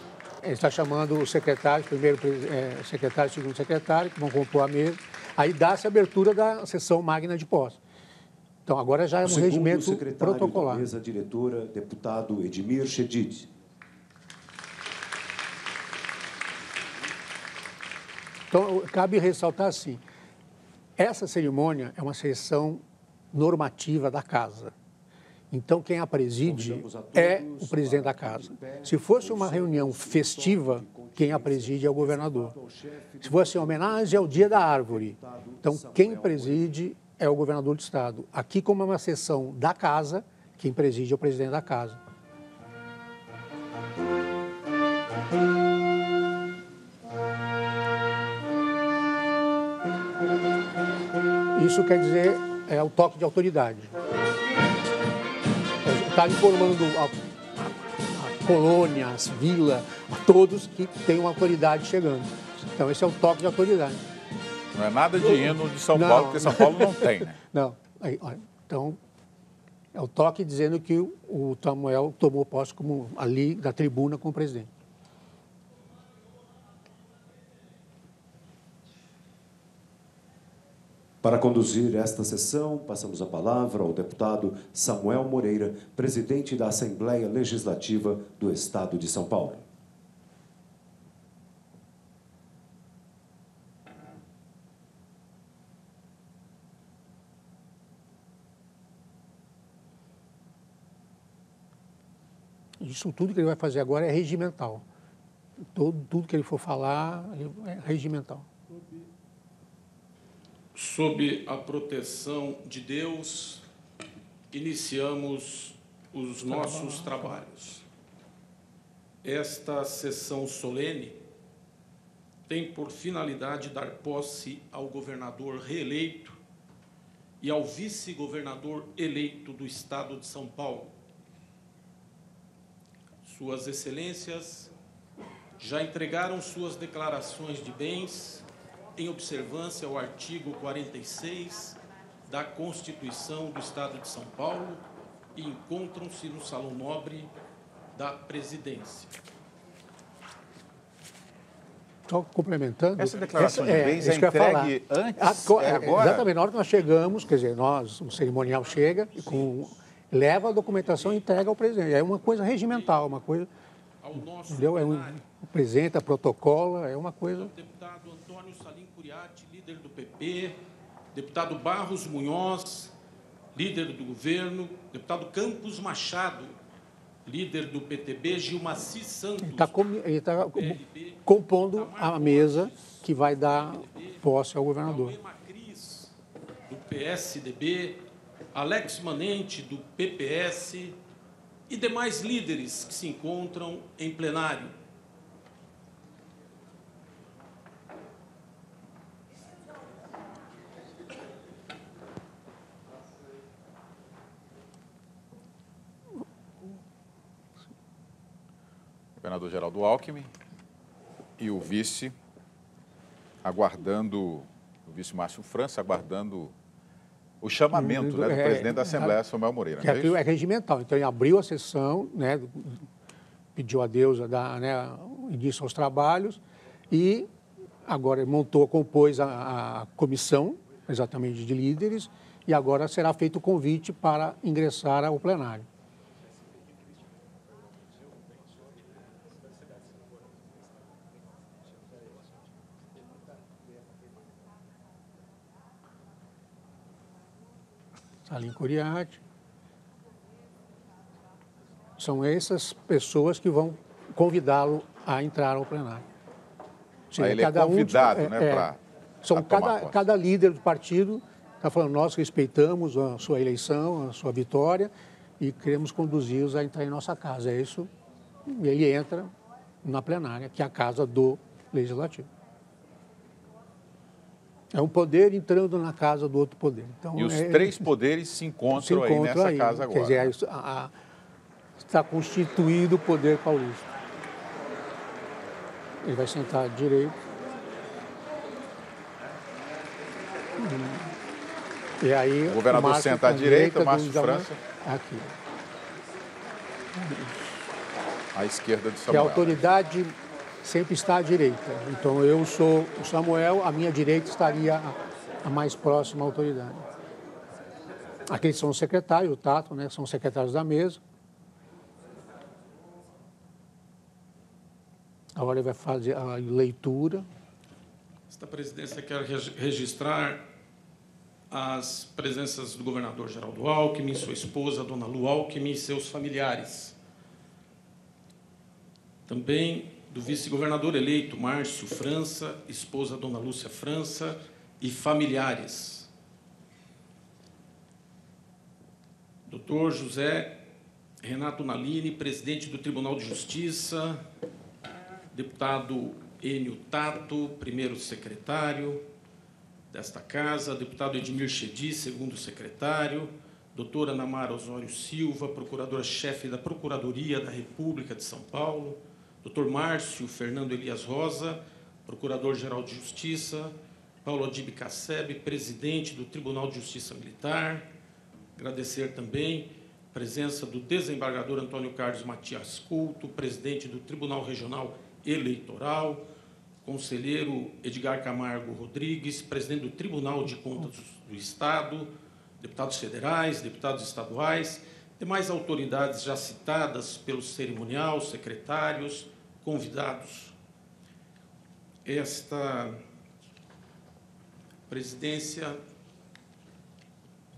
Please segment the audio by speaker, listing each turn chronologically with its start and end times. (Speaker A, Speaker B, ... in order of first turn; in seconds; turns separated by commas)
Speaker A: 0.4-7.8, Speaker A: 8.7-10.9, Speaker B: 9.2-13.5, Speaker A: 18.5-20.0, Speaker A: 21.0-22.8, Speaker A: 23.3-24.7, Speaker A: 25.5-32.5, Speaker B: 26.4-36.7, Speaker A: 33.2-42.0, Speaker A: 51.5-53.9, Speaker A: 55.8-57.1, Speaker A: 58.1-64.0, Speaker C: 64.7-67.4, Speaker A: 65.2-69.0, Speaker A: 69.9-74.7, Speaker B: 81.2-89.7, Speaker A: 102.8-104.8, Speaker A: 105.7-108.5, Speaker D: 110.7-113.6, Speaker D: 114.5-117.8, Speaker A: 116.5-117.2, Speaker D: 119.2-121.2, Speaker D: 122.5-126.4, Speaker D: 127.4-130.9, Speaker D: 133.2-134.7, Speaker D: 135.6-144.8, Speaker D: 145.3-147.3, Speaker D: 147.9-149.1, Speaker A: 152.1-163.5, Speaker C: 153.0-156.3, Speaker D: 158.3-159.8, Speaker D: 160.7-161.2, Speaker D: 162.3-163.1, Speaker D: 164.0-165.2, Speaker A: 164.5-167.5, Speaker D: 167.3-170.6, Speaker D: 171.1-172.9, Speaker D: 173.5-176.6, Speaker D: 177.2-179.8, Speaker A: 179.4-185.2, Speaker D: 180.4-184.2, Speaker D: 184.8-186.1, Speaker D: 186.7-191.0, Speaker D: 191.7-194.8, Speaker C: 209.2-210.3, Speaker C: 211.4-212.1, Speaker C: 213.4-216.5, Speaker C: 217.4-220.2, Speaker A: 217.7-219.2, Speaker A: 219.8-222.8, Speaker A: 223.6-227.3, Speaker A: 227.8-235.7, Speaker A: 248.2-249.2, Speaker A: 252.0-256.0, Speaker A: 257.1-258.7, Speaker C: 257.2-258.8, Speaker A: 259.2-267.9, Speaker C: 259.3-260.0, Speaker A: 268.5-272.3, Speaker A: 274.7-277.9, Speaker C: 277.1-280.3, Speaker A: 278.7-280.9, Speaker A: 281.8-283.8, Speaker A: 286.0-287.1, Speaker A: 290.6-291.1, Speaker A: 292.0-295.3, Speaker C: 292.4-294.6, Speaker A: 297.0-297.3, Speaker C: 298.3-299.7, Speaker A: 299.1-306.8, Speaker A: 308.3-311.0, Speaker A: 315.4-317.2, Speaker D: 318.3-320.4, Speaker D: 321.5-326.9, Speaker D: 329.3-336.1, Speaker D: 339.5-340.6, Speaker D: 341.2-344.2, Speaker D: 345.3-349.0, Speaker D: 349.9-367.9, Speaker D: 368.6-376.2, Speaker D: 376.8-390.5, Speaker D: 392.0-393.0, Speaker D: 394.9-395.8